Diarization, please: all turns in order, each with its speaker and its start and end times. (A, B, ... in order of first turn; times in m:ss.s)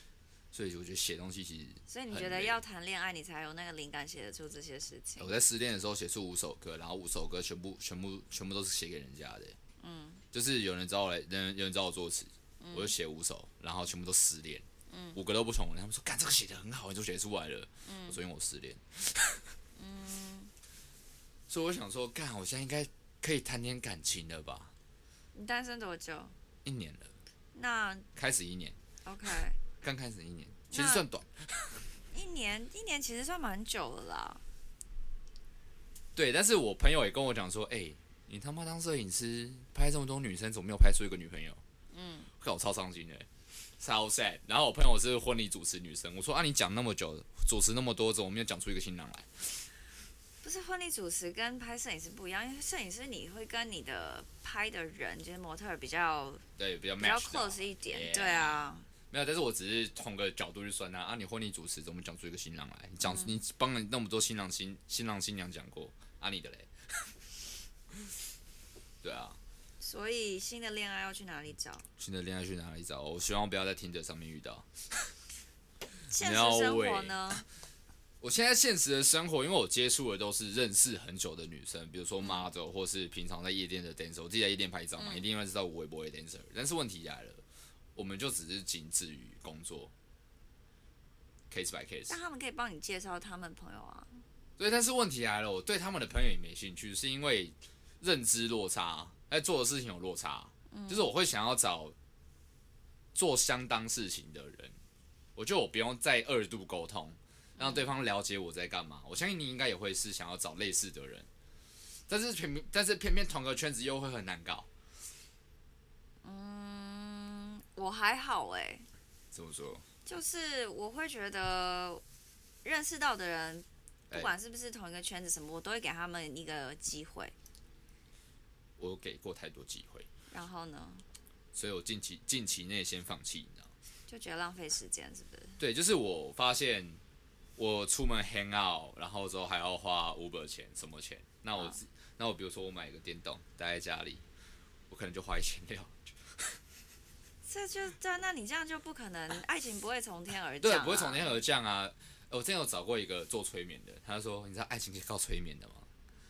0:00.5-0:02.6 A
0:01.9-0:05.4 B
0:05.2-0:09.6 A
0:09.8-0:10.2 B
0:10.3-0:19.5 A
0:12.6-0:12.9 B
0:14.9-0:15.2 B
0:17.8-0:18.2 B
0:19.8-0:20.5 B
0:21.5-0:24.7 A
0:25.3-0:26.3 B
0:26.6-0:27.1 A
0:27.5-0:28.1 B
0:28.2-0:28.8 A
0:29.0-0:29.6 B
0:29.8-0:31.9 A
0:30.7-0:31.1 B
0:32.1-0:34.4 B
0:36.2-0:41.6 A
0:41.9-0:42.3 B
0:42.4-0:49.7 A
0:50.4-0:56.4 B
0:56.6-1:07.1 A
0:57.0-0:58.9 B
1:03.0-1:03.4 B
1:09.0-1:09.4 A
1:09.8-1:11.9 B
1:12.0-1:15.1 A
1:16.1-1:17.4 B
1:16.1-1:17.4 A
1:18.2-1:27.4 A
1:22.2-1:22.5 B
1:25.0-1:25.2 B
1:28.0-1:29.9 A
1:31.5-1:32.2 A
1:32.1-1:34.2 B
1:34.6-1:42.0 A
1:40.7-1:41.1 B
1:43.2-1:44.8 A
1:45.4-1:51.3 A
1:47.6-1:47.9 B
1:52.1-1:54.7 A
1:56.2-1:58.9 B
1:59.3-1:59.8 A
2:00.1-2:02.0 B
2:02.6-2:07.4 B
2:08.8-2:10.1 A
2:10.3-2:11.0 B
2:11.5-2:13.7 A
2:14.1-2:15.6 B
2:15.6-2:17.0 A
2:17.6-2:24.2 A
2:24.9-2:26.6 A
2:27.5-2:31.4 B
2:30.6-2:35.9 A